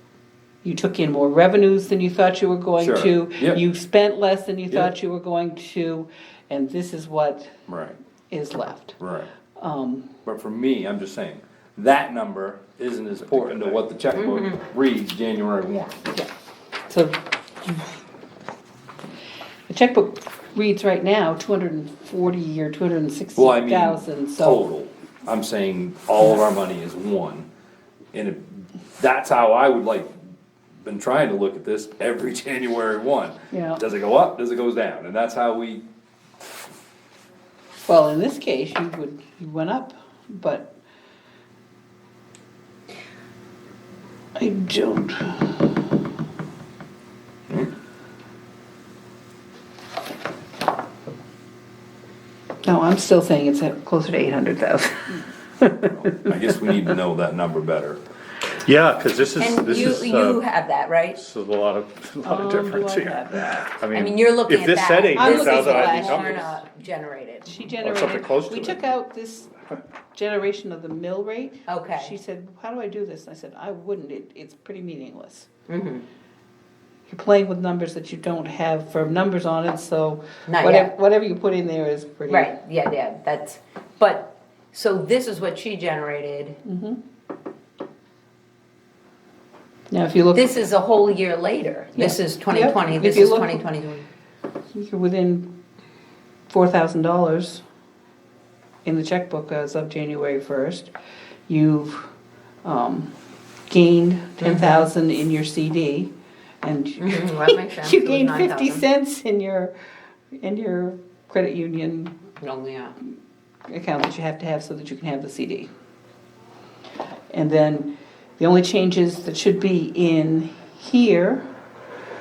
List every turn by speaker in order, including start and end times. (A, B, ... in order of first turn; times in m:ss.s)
0:00.6-0:07.5 A
0:02.8-0:03.6 B
0:07.7-0:08.0 B
0:08.3-0:09.0 A
0:09.0-0:09.3 B
0:09.6-0:10.1 A
0:10.2-0:16.0 B
0:14.1-0:14.6 C
0:16.9-0:17.8 A
0:19.7-0:24.6 A
0:23.4-0:27.5 B
0:28.1-0:30.1 B
0:30.8-0:35.8 B
0:33.5-0:33.8 A
0:37.8-0:40.7 A
0:44.4-0:45.6 A
0:52.6-0:56.3 A
0:55.8-0:58.0 B
0:58.5-1:00.4 D
0:59.4-1:01.2 C
1:01.1-1:06.6 D
1:02.2-1:03.7 A
1:03.9-1:07.5 C
1:05.1-1:06.5 A
1:07.5-1:09.5 A
1:07.8-1:08.8 D
1:10.1-1:15.5 A
1:11.7-1:12.1 C
1:15.7-1:16.0 C
1:17.1-1:22.6 A
1:20.5-1:20.9 C
1:22.3-1:26.6 C
1:26.6-1:27.0 A
1:29.9-1:30.5 A
1:30.3-1:34.1 C
1:31.9-1:33.6 A
1:34.7-1:35.5 A
1:36.5-1:37.6 A
1:38.8-1:40.9 A
1:41.5-1:42.1 A
1:42.6-1:43.1 A
1:43.7-1:49.7 A
1:44.4-1:44.9 C
1:47.0-1:48.8 C
1:50.3-1:52.2 A
1:52.4-1:53.0 C
1:53.7-1:55.7 A
1:57.3-2:01.5 A